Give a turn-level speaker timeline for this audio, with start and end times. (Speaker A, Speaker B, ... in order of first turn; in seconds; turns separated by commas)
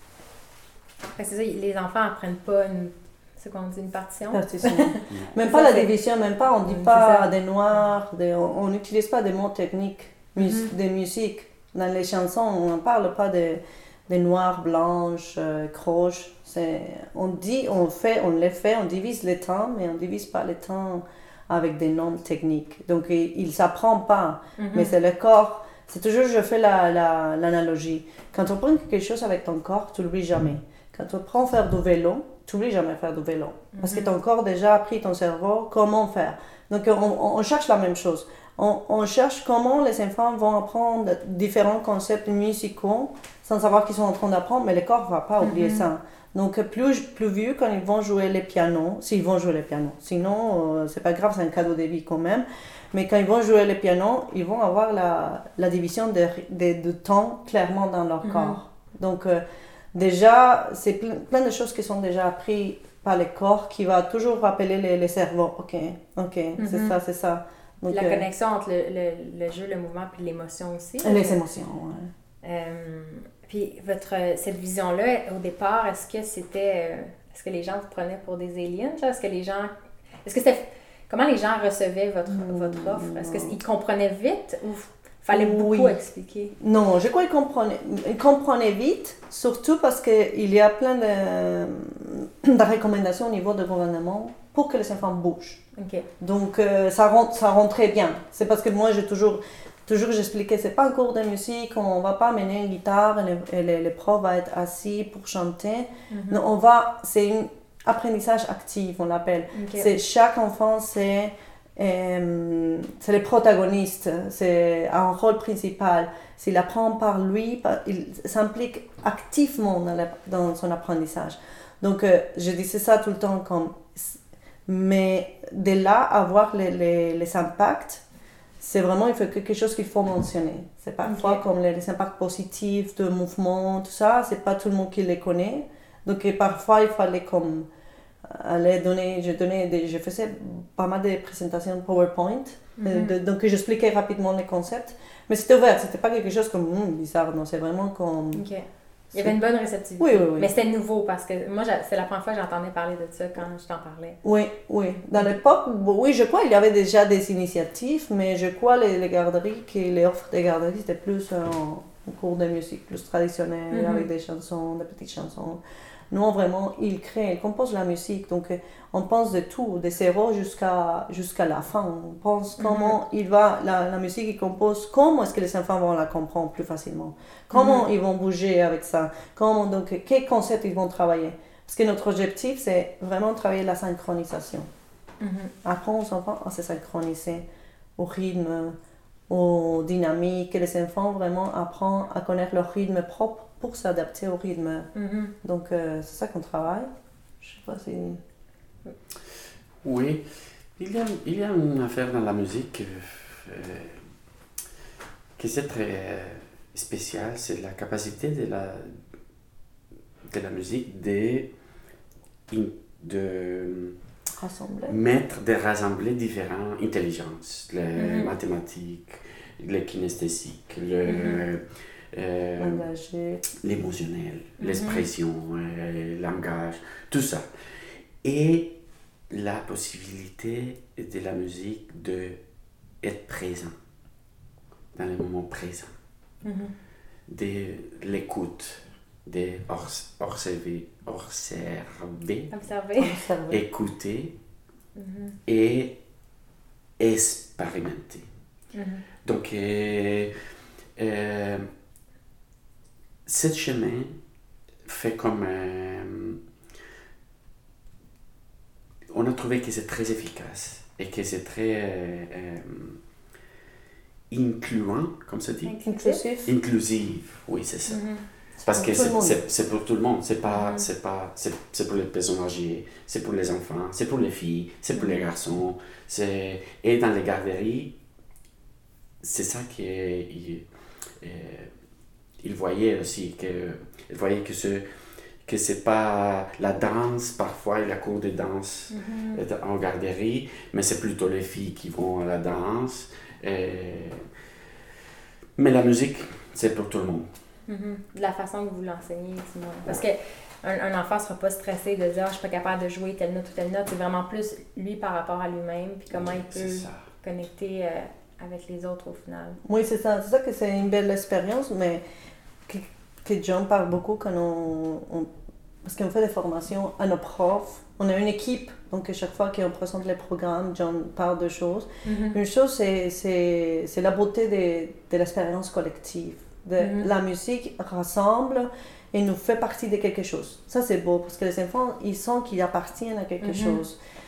Speaker A: 1.1-5.9, Speaker B: 4.3-59.4, Speaker A: 6.6-7.3, Speaker A: 10.4-10.7, Speaker A: 24.6-25.0, Speaker A: 33.7-34.1, Speaker A: 45.4-45.9, Speaker A: 58.2-58.6, Speaker B: 59.9-68.2, Speaker A: 66.6-67.0, Speaker A: 67.9-71.4, Speaker B: 71.0-72.1, Speaker A: 72.4-79.7, Speaker A: 80.2-86.5, Speaker B: 82.3-83.6, Speaker B: 85.3-86.0, Speaker B: 86.6-95.6, Speaker A: 95.8-96.1, Speaker B: 96.2-128.0, Speaker A: 106.1-106.5, Speaker A: 109.5-109.9, Speaker B: 128.6-137.7, Speaker A: 131.0-131.4, Speaker B: 138.2-148.4, Speaker A: 142.8-143.2, Speaker A: 148.3-154.2, Speaker B: 150.0-150.5, Speaker B: 154.2-184.7, Speaker A: 163.7-164.1, Speaker A: 172.6-172.9, Speaker A: 177.5-177.9, Speaker A: 185.2-185.5, Speaker B: 185.6-187.4, Speaker B: 188.0-188.8, Speaker B: 189.3-194.9, Speaker A: 194.9-195.3, Speaker B: 195.4-196.9, Speaker B: 197.4-198.2, Speaker C: 199.8-200.2, Speaker C: 200.8-204.0, Speaker C: 205.4-209.0, Speaker C: 210.3-211.5, Speaker C: 212.5-213.9, Speaker B: 214.4-214.9, Speaker C: 214.9-221.6, Speaker A: 218.0-218.3, Speaker A: 221.1-221.4, Speaker C: 222.1-222.9, Speaker B: 222.6-223.4, Speaker C: 223.6-227.4, Speaker A: 224.6-225.1, Speaker C: 228.2-228.8, Speaker C: 229.3-232.4, Speaker C: 233.0-233.7, Speaker C: 234.9-235.9, Speaker A: 236.4-236.7, Speaker C: 237.3-242.5, Speaker A: 242.5-243.2, Speaker B: 243.0-243.6, Speaker C: 243.5-244.4, Speaker A: 244.9-245.4, Speaker C: 245.5-246.0, Speaker C: 247.0-248.3, Speaker A: 248.7-249.0, Speaker C: 249.2-250.3, Speaker C: 251.0-251.7, Speaker C: 253.3-254.1, Speaker C: 254.9-256.4, Speaker C: 259.1-263.0, Speaker C: 264.3-265.8, Speaker A: 265.6-266.2, Speaker B: 265.9-266.5, Speaker C: 266.4-268.0, Speaker A: 267.9-268.2, Speaker C: 268.6-277.9, Speaker B: 268.7-269.4, Speaker A: 270.5-270.9, Speaker C: 279.2-280.6, Speaker C: 281.2-281.7, Speaker C: 282.4-284.8, Speaker C: 285.4-294.2, Speaker A: 288.9-289.4, Speaker C: 295.6-297.3, Speaker A: 297.7-309.6, Speaker C: 306.1-307.1, Speaker B: 309.6-312.0, Speaker B: 312.7-315.3, Speaker B: 315.8-334.0, Speaker A: 322.1-322.4, Speaker A: 326.8-327.1, Speaker A: 333.4-333.8